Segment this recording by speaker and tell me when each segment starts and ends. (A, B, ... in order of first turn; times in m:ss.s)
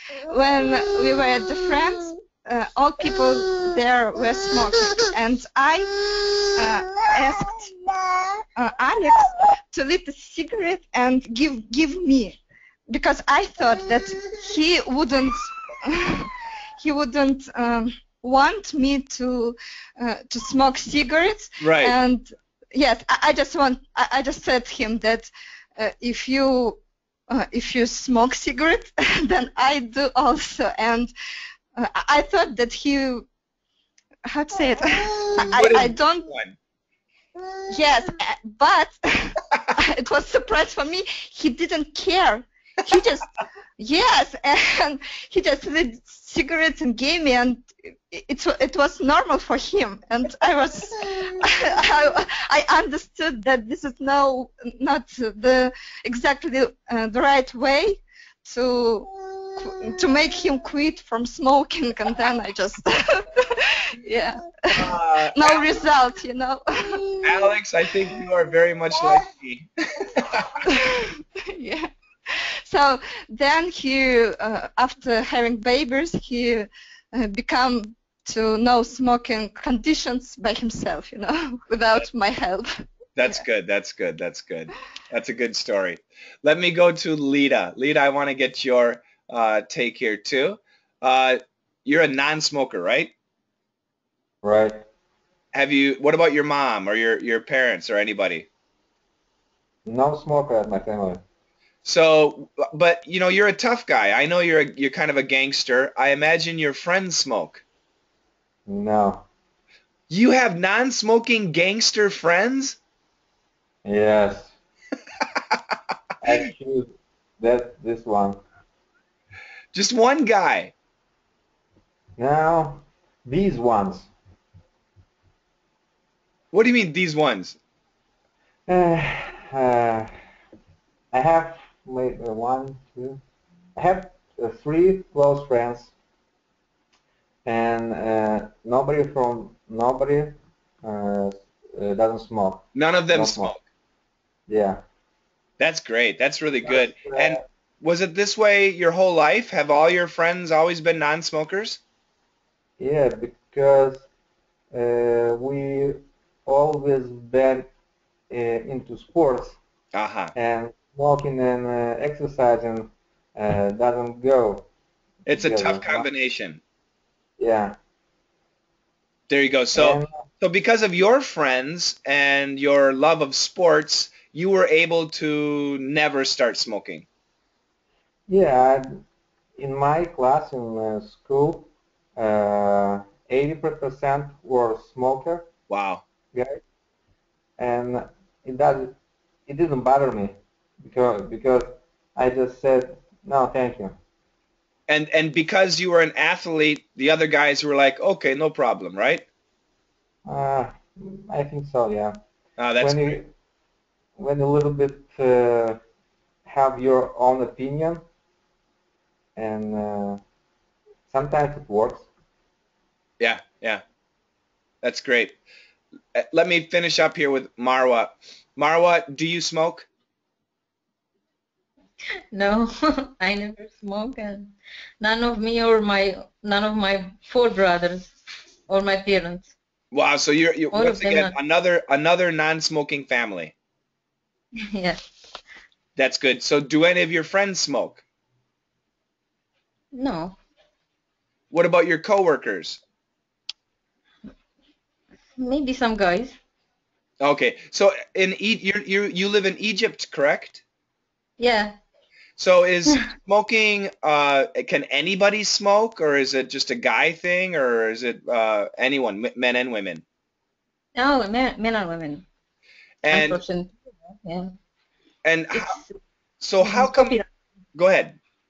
0:00.2-0:07.7 A
0:08.6-0:12.4 A
0:12.9-0:26.8 A
0:21.6-0:21.9 B
0:27.3-0:31.1 A
0:31.8-0:33.3 A
0:34.3-0:36.3 A
0:35.5-0:36.6 B
0:37.6-1:03.6 A
1:04.0-1:04.4 C
1:04.6-1:07.2 A
1:04.7-1:05.7 B
1:07.2-1:10.6 B
1:10.6-1:22.7 A
1:23.2-1:33.1 B
1:34.4-1:34.8 D
1:35.5-1:38.5 B
1:39.8-1:41.2 D
1:41.8-1:47.6 B
1:48.7-1:49.3 D
1:50.1-1:52.8 B
1:53.8-1:54.5 D
1:56.2-1:58.4 D
1:59.7-2:00.7 B
2:02.2-2:04.1 D
2:06.5-2:07.6 B
2:08.7-2:10.2 D
2:11.1-2:13.2 D
2:13.8-2:15.9 D
2:17.4-2:23.5 D
2:22.8-2:23.6 B
2:24.5-2:24.8 D
2:25.6-2:31.8 B
2:26.6-2:27.4 D
2:32.8-2:34.0 D
2:34.7-2:37.7 D
2:38.3-2:39.6 D
2:39.9-2:40.3 B
2:40.4-2:44.7 D
2:45.3-2:46.6 B
2:45.3-2:46.1 D
2:47.4-2:47.8 D
2:49.3-2:57.1 B
2:49.7-2:50.2 D
2:58.3-2:59.0 D
2:59.6-3:05.5 D
3:05.7-3:06.0 B
3:06.3-3:06.6 D
3:07.6-3:09.0 D
3:09.5-3:14.0 D
3:14.9-3:19.2 B
3:20.2-3:22.2 D
3:22.6-3:23.2 B
3:22.8-3:23.3 D
3:24.2-3:25.8 D
3:26.4-3:28.0 D
3:29.4-3:30.2 D
3:31.1-3:32.1 D
3:33.2-3:33.8 B
3:34.8-3:35.4 B
3:36.2-3:39.9 B
3:42.3-3:48.1 C
3:48.7-3:49.5 C
3:49.9-3:53.6 B
3:50.7-3:51.4 C
3:54.6-3:55.0 C
3:56.0-3:58.0 B
3:59.9-4:00.4 C
4:01.5-4:02.8 B
4:05.4-4:06.4 C
4:07.2-4:10.6 B
4:11.4-4:11.8 C
4:12.4-4:20.0 B
4:21.0-4:22.2 C
4:23.0-4:23.4 B
4:23.1-4:24.6 C
4:25.2-4:25.8 B
4:25.5-4:26.0 C
4:26.4-4:27.2 B
4:26.6-4:27.3 C
4:27.8-4:28.2 B